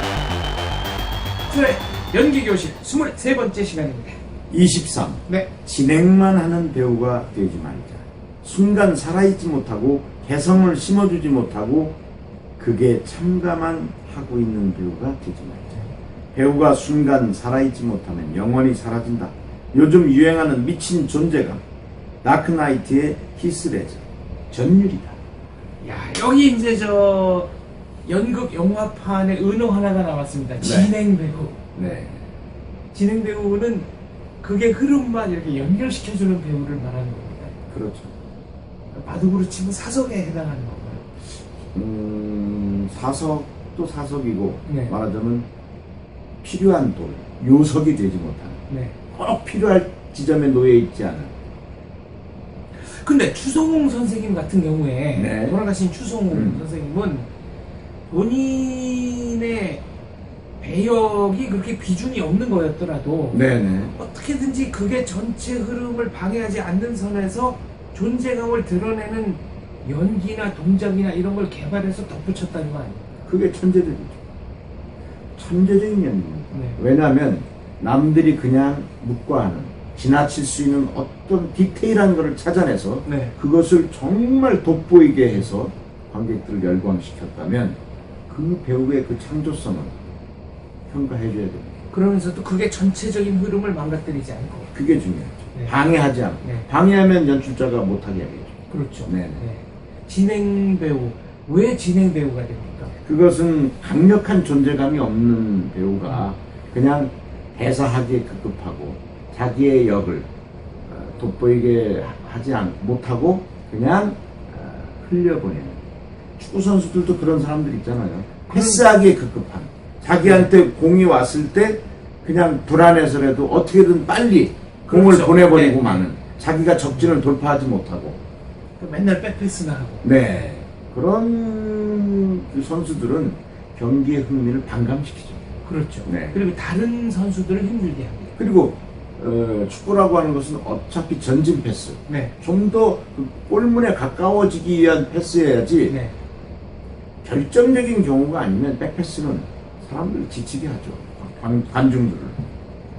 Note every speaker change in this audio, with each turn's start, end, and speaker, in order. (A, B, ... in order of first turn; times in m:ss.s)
0:01.5-0:04.2 A
0:04.5-0:12.0 B
0:12.6-0:15.8 B
0:16.3-0:21.6 B
0:22.2-0:25.2 B
0:25.8-0:27.5 A
0:28.0-0:31.7 A
0:30.6-0:30.9 B
0:31.8-0:32.2 B
0:32.9-0:33.9 A
0:34.4-0:37.6 A
0:37.7-0:38.1 B
0:39.0-0:41.1 A
0:41.7-0:45.4 B
0:44.7-0:44.9 A
0:46.4-0:51.3 B
0:48.7-0:49.0 A
0:52.8-0:57.3 A
0:55.1-0:55.6 B
0:56.3-0:56.6 B
0:58.1-0:59.8 A
1:00.6-1:03.4 A
1:03.3-1:04.0 B
1:03.9-1:13.2 A
1:13.3-1:14.2 B
1:15.4-1:30.0 B
1:16.5-1:16.8 A
1:23.1-1:23.3 A
1:30.9-1:31.8 B
1:31.9-1:34.7 A
1:34.7-1:39.4 B
1:38.7-1:42.9 A
1:43.0-1:50.3 B
1:50.9-1:55.8 B
1:56.4-2:08.2 B
1:58.5-1:58.8 A
2:00.2-2:00.5 A
2:04.9-2:06.0 A
2:08.8-2:10.1 A
2:10.0-2:15.4 B
2:15.6-2:18.4 A
2:16.0-2:16.4 B
2:18.4-2:26.0 B
2:22.1-2:22.3 A
2:25.9-2:26.1 A
2:27.2-2:32.5 B